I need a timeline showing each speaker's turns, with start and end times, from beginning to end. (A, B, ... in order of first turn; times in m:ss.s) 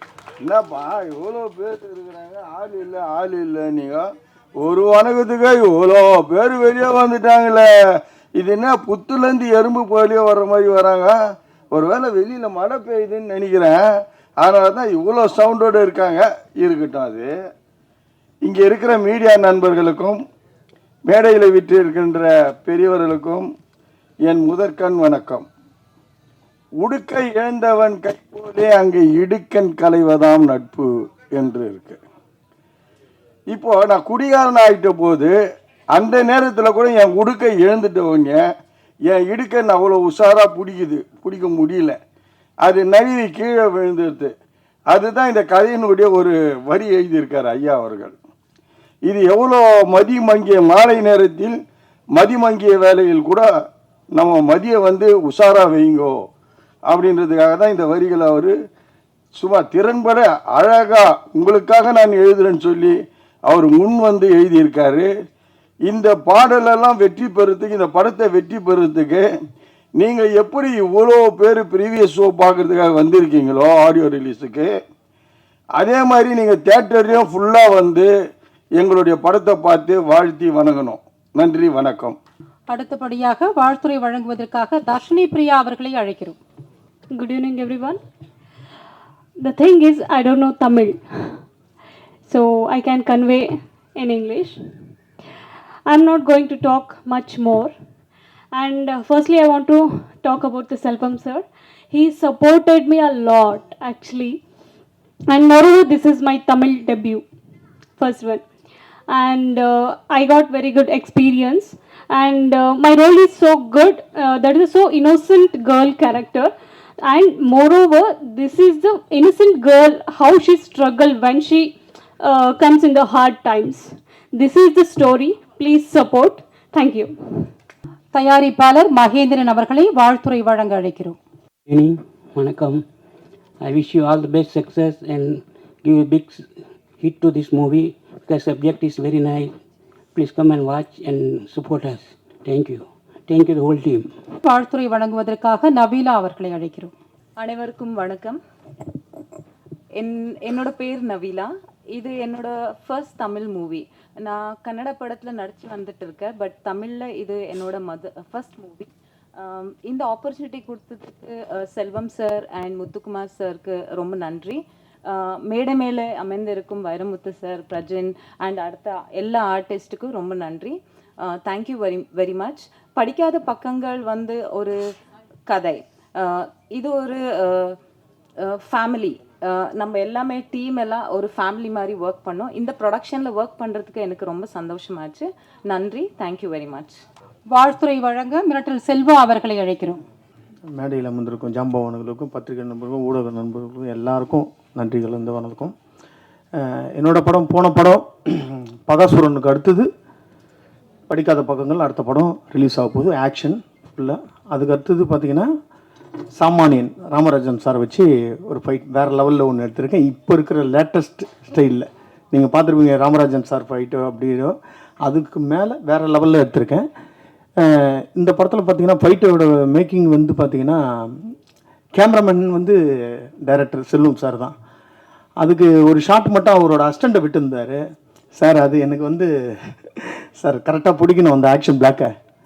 0:00.4-0:04.0 A
0:04.6-0:07.7 A
0:08.4-0:11.1 A
0:11.7-0:13.8 A
0:14.4-0:17.3 A
0:18.4-0:20.2 A
0:21.1-0:23.4 A
0:24.2-0:25.5 A
0:26.8-0:32.0 A
0:33.5-0:35.3 A
0:36.0-0:38.4 A
0:39.1-0:42.0 A
0:42.6-0:44.3 A
0:44.9-0:48.2 A
0:49.0-0:51.6 A
0:52.2-0:53.4 A
0:54.2-0:56.2 A
0:56.9-0:58.5 A
0:59.4-1:02.9 A
1:03.5-1:05.1 A
1:05.9-1:09.2 A
1:10.0-1:14.7 A
1:15.8-1:18.1 A
1:18.8-1:22.2 A
1:22.7-1:26.4 B
1:27.1-1:28.0 C
1:29.4-1:31.4 C
1:32.3-1:34.6 C
1:35.9-1:37.7 C
1:38.5-1:44.4 C
1:45.3-1:47.2 C
1:48.0-1:48.4 C
1:49.1-2:07.4 C
2:08.1-2:11.2 B
2:11.7-2:12.8 D
2:13.6-2:16.4 D
2:17.0-2:19.5 D
2:20.2-2:24.1 D
2:24.4-2:26.9 B
2:27.4-2:28.4 E
2:30.0-2:54.8 E
2:55.5-2:57.8 E
2:58.5-3:07.0 E
3:07.5-3:10.0 B
3:10.8-3:15.7 F
3:16.6-3:19.9 F
3:21.1-3:25.5 F
3:26.4-3:36.9 F
3:37.6-3:41.3 F
3:42.0-3:42.8 F
3:43.4-3:44.5 F
3:45.4-3:47.8 F
3:48.4-3:52.1 F